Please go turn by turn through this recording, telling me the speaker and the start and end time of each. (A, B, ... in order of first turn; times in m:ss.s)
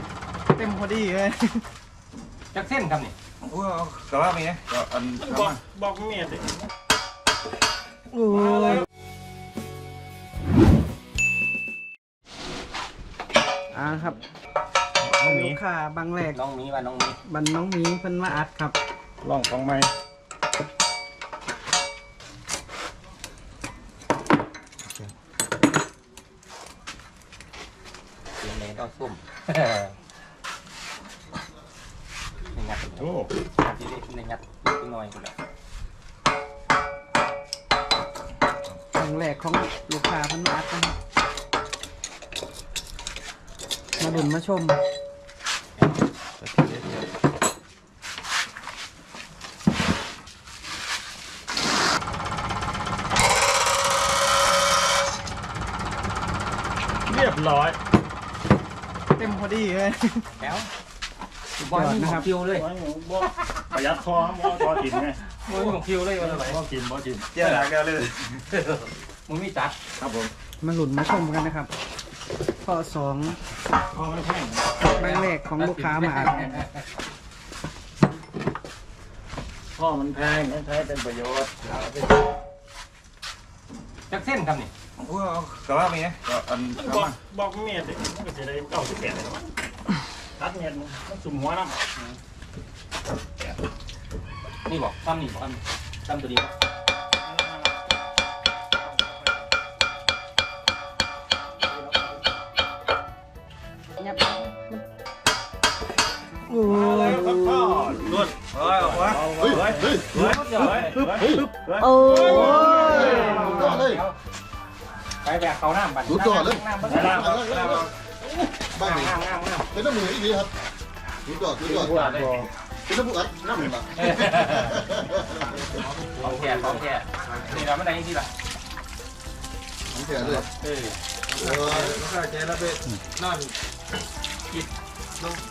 0:00.5-0:01.6 A
0:02.5-0:03.1 B
0:03.4-0:05.6 C
0:05.2-0:06.5 D
0:08.1-0:08.8 A
0:13.7-0:14.2 A
0:15.0-0:15.6 D
0:15.1-0:16.4 A
0:16.3-0:17.2 B
0:17.2-0:18.8 A
0:19.2-0:19.9 D
0:28.4-0:29.9 B
0:32.5-0:35.3 B
0:33.0-0:33.3 D
0:38.9-0:40.9 A
0:44.0-0:44.3 B
0:44.0-0:44.8 A
0:46.4-0:47.0 C
0:57.1-0:57.8 D
0:59.1-1:00.2 A
1:00.4-1:00.7 B
1:01.6-1:02.3 A
1:01.6-1:02.7 B
1:02.5-1:05.2 D
1:05.4-1:06.6 B
1:06.2-1:07.3 D
1:07.3-1:08.2 C
1:08.5-1:09.8 B
1:10.0-1:10.3 D
1:10.6-1:11.7 A
1:12.6-1:13.4 A
1:13.9-1:14.9 D
1:14.9-1:16.6 A
1:14.9-1:16.7 B
1:19.8-1:22.0 D
1:24.1-1:24.7 B
1:25.0-1:27.2 C
1:26.7-1:29.4 D
1:30.4-1:31.9 D
1:34.6-1:36.5 B
1:37.2-1:37.7 D
1:44.0-1:44.8 A
1:46.5-1:47.9 A
1:46.6-1:53.7 D
1:48.0-1:50.5 C
1:49.4-1:50.1 E
1:50.1-1:51.2 B
1:51.2-1:53.7 A
1:52.8-1:54.0 E
1:52.8-1:54.2 B
1:55.2-1:57.9 B
1:56.0-1:59.2 E
1:56.8-1:57.3 D
1:58.6-1:59.7 B
1:59.7-2:00.5 E
2:01.2-2:02.0 E
2:01.6-2:02.5 D
2:01.8-2:02.4 B
2:02.8-2:05.7 E
2:04.0-2:04.8 B
2:05.6-2:07.6 C
2:06.2-2:08.3 B
2:09.9-2:10.4 E
2:10.6-2:10.9 B
2:11.3-2:13.5 C
2:11.4-2:12.0 E